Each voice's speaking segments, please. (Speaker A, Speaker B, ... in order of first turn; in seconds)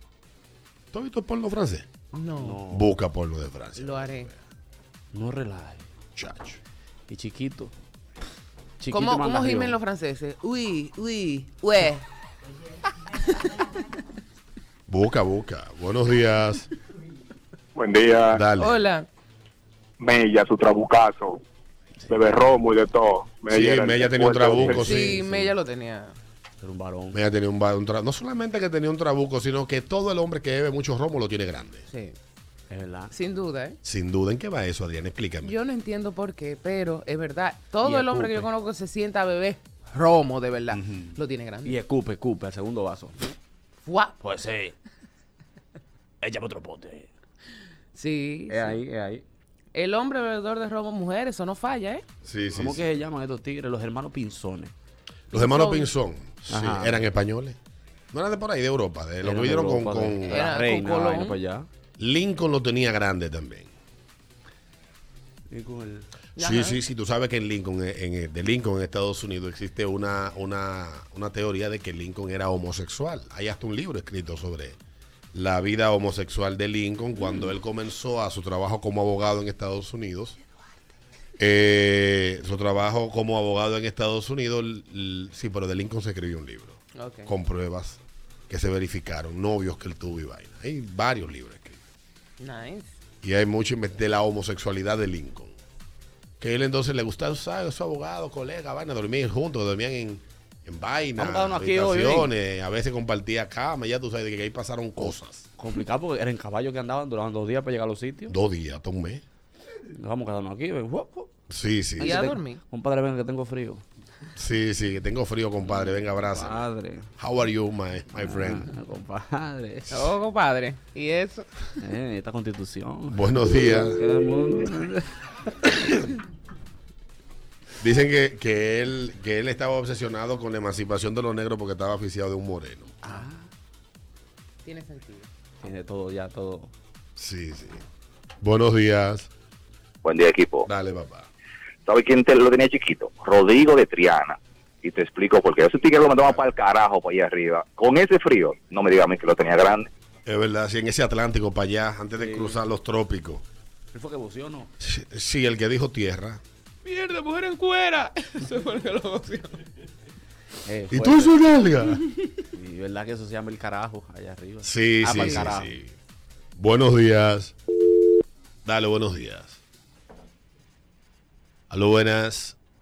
Speaker A: 0.9-1.9, 2.7-4.3, 6.2-6.6, 14.9-16.7, 18.3-18.8, 23.5-25.5, 27.1-31.9, 33.8-35.5, 40.7-41.1, 52.2-52.9, 55.3-57.6, 58.1-60.4, 62.0-63.7, 66.4-74.8, 75.3-80.4, 81.4-91.8, 93.2-95.5, 96.4-105.5, 108.3-109.2, 111.5-112.2, 114.4-116.6, 117.2-118.7, 123.1-124.0, 127.8-132.9, 137.2-137.8, 138.4-139.3, 140.7-141.3, 150.3-153.4, 154.8-156.4, 160.9-162.0, 164.6-165.9, 166.6-167.6, 168.7-169.6, 171.7-172.6
Speaker B: 2.1-2.6, 3.8-4.3, 8.9-12.0, 18.6-19.1, 24.8-26.2, 31.9-32.1, 33.1-33.8, 35.4-41.8, 43.8-44.2, 47.9-48.8, 49.7-52.0, 55.3-55.9, 60.2-61.4, 66.4-66.8, 87.0-87.3, 92.4-92.9, 112.0-112.6, 119.9-121.7, 134.7-135.3, 156.9-159.6, 165.2-165.4
Speaker C: 2.4-2.9, 5.1-5.8, 7.1-7.7, 8.8-9.8, 22.1-22.4, 24.6-24.9, 26.6-27.2, 32.7-33.1, 37.8-38.5, 41.6-43.4, 44.2-44.7, 46.2-47.1, 48.5-49.2, 52.6-54.7, 56.5-57.0, 59.2-61.7, 65.5-66.1, 101.2-102.3, 105.6-108.3, 109.9-111.3, 112.0-113.8, 115.7-117.1, 118.2-120.1, 121.8-125.1, 133.0-133.4, 135.6-136.7, 152.2-152.6, 153.9-154.7, 160.7-161.3, 162.5-165.7
Speaker D: 17.8-18.4, 20.0-21.4, 22.1-25.0
Speaker E: 140.0-140.7, 141.9-149.9